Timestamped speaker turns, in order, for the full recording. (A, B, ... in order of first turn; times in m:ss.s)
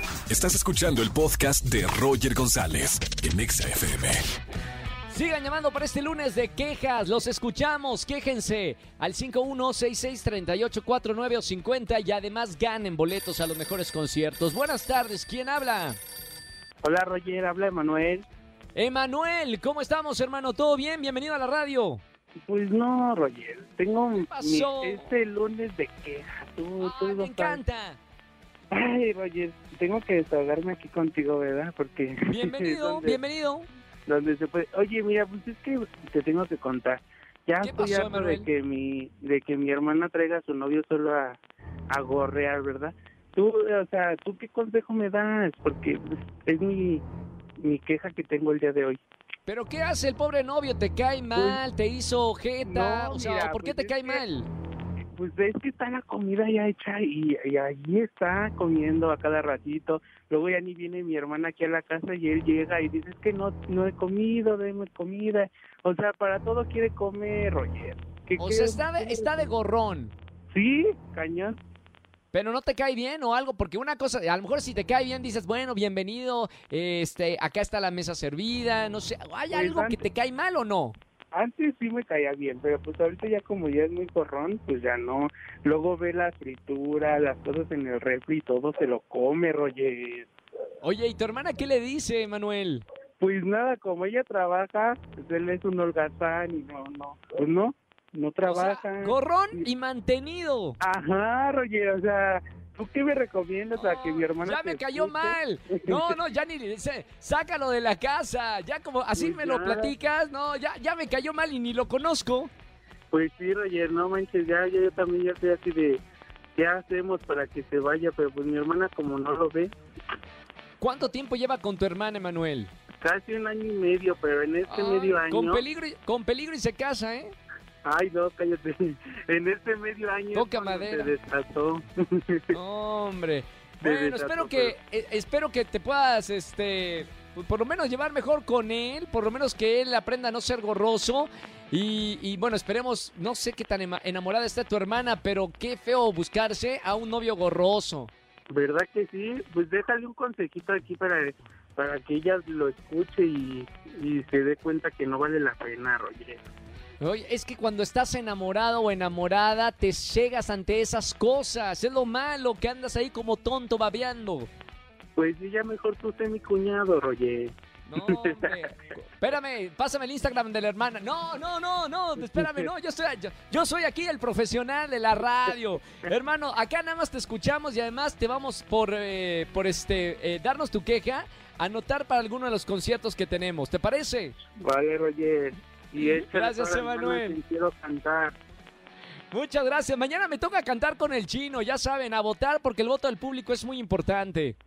0:00.3-0:04.2 A
0:05.1-0:16.0 B
0:16.8-0:18.3 C
0:18.8-0:22.0 B
0:22.5-0:27.6 C
0:24.2-0:25.1 B
0:26.8-0:28.0 B
0:28.7-0:33.2 C
0:32.3-0:33.7 B
0:34.1-0:47.0 C
0:37.6-0:38.5 B
0:47.6-0:49.0 C
0:49.5-0:54.5 B
0:51.3-0:51.6 C
0:52.6-0:54.2 C
0:55.2-1:09.6 C
1:08.4-1:10.2 B
1:10.5-1:11.6 C
1:12.3-1:21.0 B
1:19.5-1:20.1 C
1:21.3-1:30.3 C
1:30.8-1:32.8 B
1:33.2-1:39.7 C
1:38.4-1:40.8 B
1:40.8-1:46.2 C
1:43.8-1:52.5 B
1:49.2-1:49.9 C
1:53.1-1:56.0 C
1:56.6-1:59.8 C
2:00.8-2:02.7 B
2:03.0-2:05.6 C
2:04.7-2:07.3 B
2:07.8-2:12.6 C
2:10.3-2:11.1 B
2:12.5-2:28.1 B
2:13.8-2:14.7 C
2:28.5-2:36.4 C
2:37.0-2:44.5 B
2:45.2-2:48.7 C
2:47.9-3:04.4 B
2:52.2-2:52.7 C
3:04.6-3:08.4 C
3:06.0-3:07.4 B
3:09.3-3:14.6 B